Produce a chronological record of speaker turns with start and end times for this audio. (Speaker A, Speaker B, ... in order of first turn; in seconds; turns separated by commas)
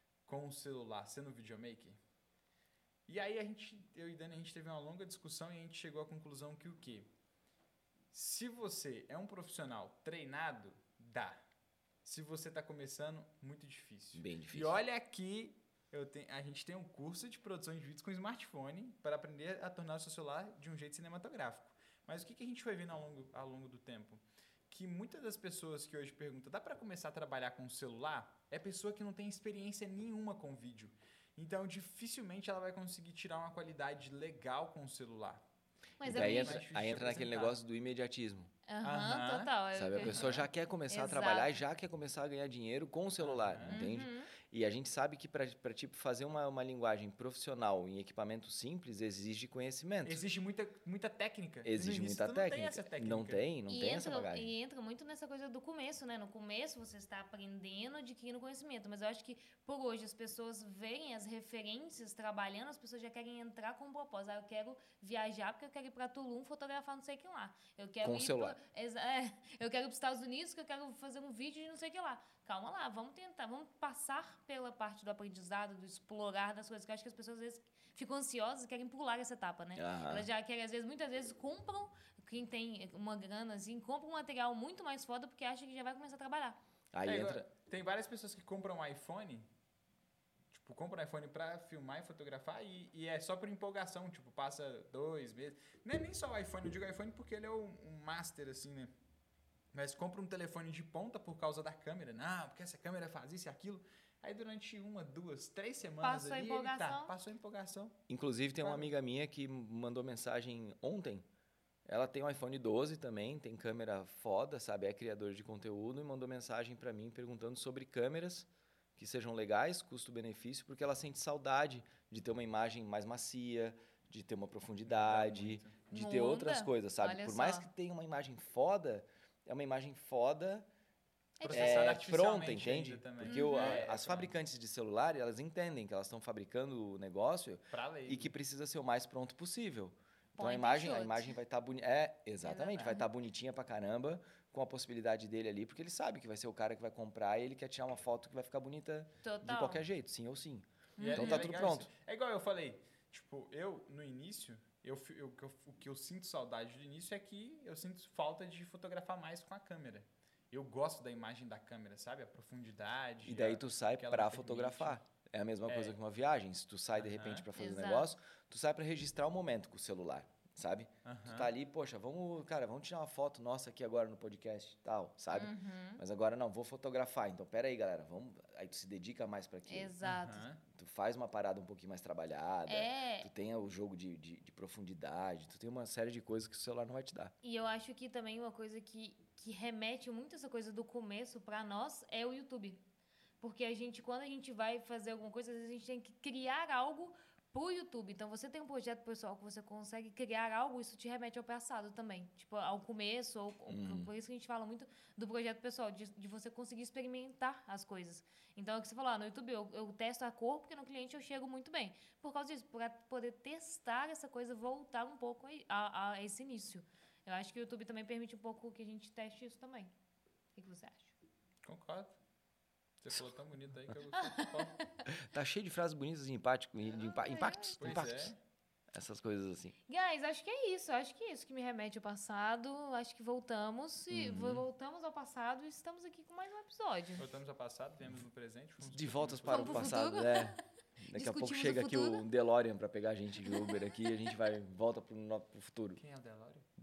Speaker A: 0.2-2.0, Speaker A: 3.1-7.1, Speaker A: 8.1-11.4, Speaker A: 12.0-35.4, Speaker B: 14.2-14.8, Speaker C: 36.0-36.6, Speaker A: 36.0-37.6, Speaker B: 36.0-38.5, Speaker C: 38.7-41.6, Speaker A: 38.8-40.4, Speaker B: 39.7-50.2, Speaker A: 43.2-43.9, Speaker C: 43.7-44.3, Speaker A: 50.0-53.4, Speaker B: 51.6-54.5, Speaker C: 53.7-86.6, Speaker B: 68.0-68.6, Speaker B: 79.8-80.3, Speaker B: 86.9-87.4, Speaker A: 87.0-89.5, Speaker A: 90.5-98.9, Speaker A: 99.7-108.0, Speaker C: 106.0-107.1, Speaker B: 108.1-111.2, Speaker A: 108.6-108.9, Speaker B: 111.8-130.7, Speaker A: 124.8-125.8, Speaker C: 125.9-127.7, Speaker C: 131.4-131.9, Speaker A: 131.4-134.3, Speaker B: 131.5-151.9, Speaker C: 133.2-133.8, Speaker A: 137.7-138.3, Speaker C: 140.4-141.3, Speaker C: 142.4-143.1, Speaker C: 149.2-149.8, Speaker C: 151.0-151.5, Speaker A: 151.0-165.0, Speaker B: 163.2-179.9, Speaker A: 165.7-165.9, Speaker A: 167.0-167.5, Speaker C: 167.5-168.1, Speaker A: 171.0-171.5, Speaker C: 175.3-176.0, Speaker C: 179.7-180.4, Speaker A: 180.0-180.6, Speaker B: 180.7-187.3, Speaker C: 182.7-183.3, Speaker C: 187.4-192.8, Speaker C: 193.4-219.9, Speaker B: 203.7-204.1, Speaker C: 220.6-221.1, Speaker A: 221.6-222.1, Speaker A: 223.0-224.8, Speaker C: 224.1-225.1, Speaker B: 225.1-228.3, Speaker C: 226.9-228.0, Speaker A: 227.8-228.3, Speaker B: 228.9-229.8, Speaker C: 229.9-237.2, Speaker B: 234.1-234.7, Speaker A: 237.2-240.0, Speaker B: 238.8-246.0, Speaker C: 239.4-240.6, Speaker C: 241.1-242.2, Speaker C: 243.5-243.8, Speaker A: 246.0-246.7